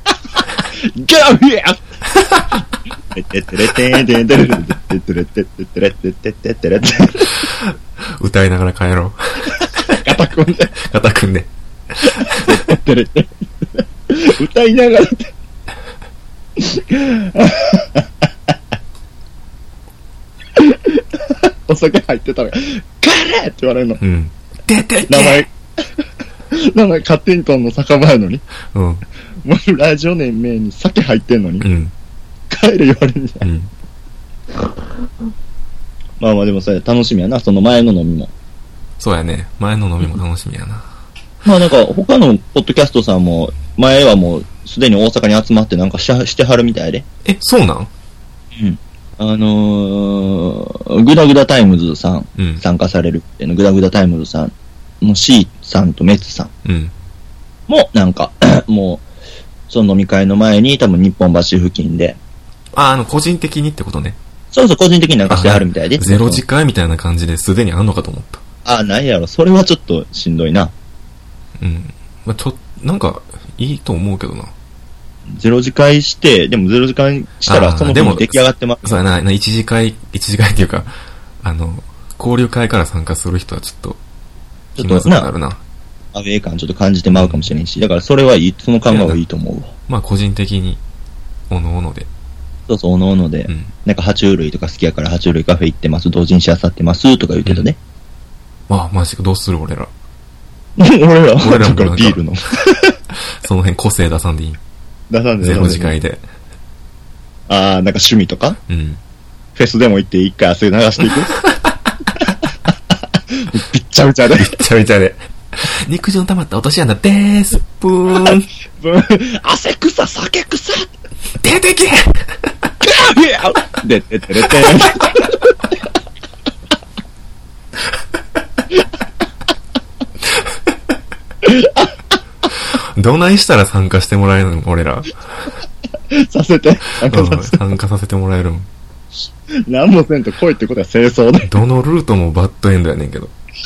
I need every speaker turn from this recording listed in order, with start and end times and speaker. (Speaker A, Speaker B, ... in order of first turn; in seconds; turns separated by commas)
Speaker A: 0.7-1.8, Speaker A: 3.1-7.5, Speaker B: 7.4-10.0, Speaker A: 9.6-10.7, Speaker B: 10.8-12.6, Speaker A: 12.2-15.3, Speaker A: 16.6-18.3, Speaker A: 20.6-24.0, Speaker B: 24.0-25.4, Speaker A: 25.1-25.5, Speaker A: 26.5-28.4, Speaker B: 28.7-29.0, Speaker A: 29.4-31.6, Speaker B: 31.6-31.9, Speaker A: 32.5-33.5, Speaker B: 33.4-33.7, Speaker A: 36.2-38.3, Speaker B: 39.0-40.9, Speaker A: 41.4-47.0, Speaker B: 47.2-47.9, Speaker A: 48.6-56.5, Speaker B: 52.4-52.6, Speaker B: 56.6-56.9, Speaker A: 57.7-59.0, Speaker A: 59.7-62.2, Speaker B: 62.7-64.2, Speaker A: 64.5-66.4, Speaker B: 65.3-68.4, Speaker A: 68.6-70.7, Speaker B: 71.6-74.5, Speaker A: 75.3-79.0, Speaker B: 77.5-84.0, Speaker A: 84.8-85.3, Speaker B: 84.8-85.6, Speaker A: 86.1-89.7, Speaker B: 87.1-87.5, Speaker B: 88.9-89.2, Speaker B: 89.9-90.8, Speaker B: 91.5-92.1, Speaker A: 92.7-97.8, Speaker B: 98.7-99.9, Speaker A: 100.8-102.9, Speaker B: 101.4-102.2, Speaker B: 103.2-104.6, Speaker A: 105.1-105.9, Speaker B: 105.4-106.2, Speaker A: 107.5-108.6, Speaker B: 108.7-109.0, Speaker A: 109.5-111.3, Speaker B: 111.4-111.7, Speaker A: 113.3-114.6, Speaker B: 114.3-118.5, Speaker A: 118.2-120.9, Speaker B: 121.4-122.3, Speaker A: 122.8-125.5, Speaker B: 124.5-124.8, Speaker A: 131.4-131.9, Speaker B: 132.5-135.5, Speaker A: 136.1-137.7, Speaker B: 137.1-138.7, Speaker A: 139.7-141.5, Speaker B: 141.4-143.3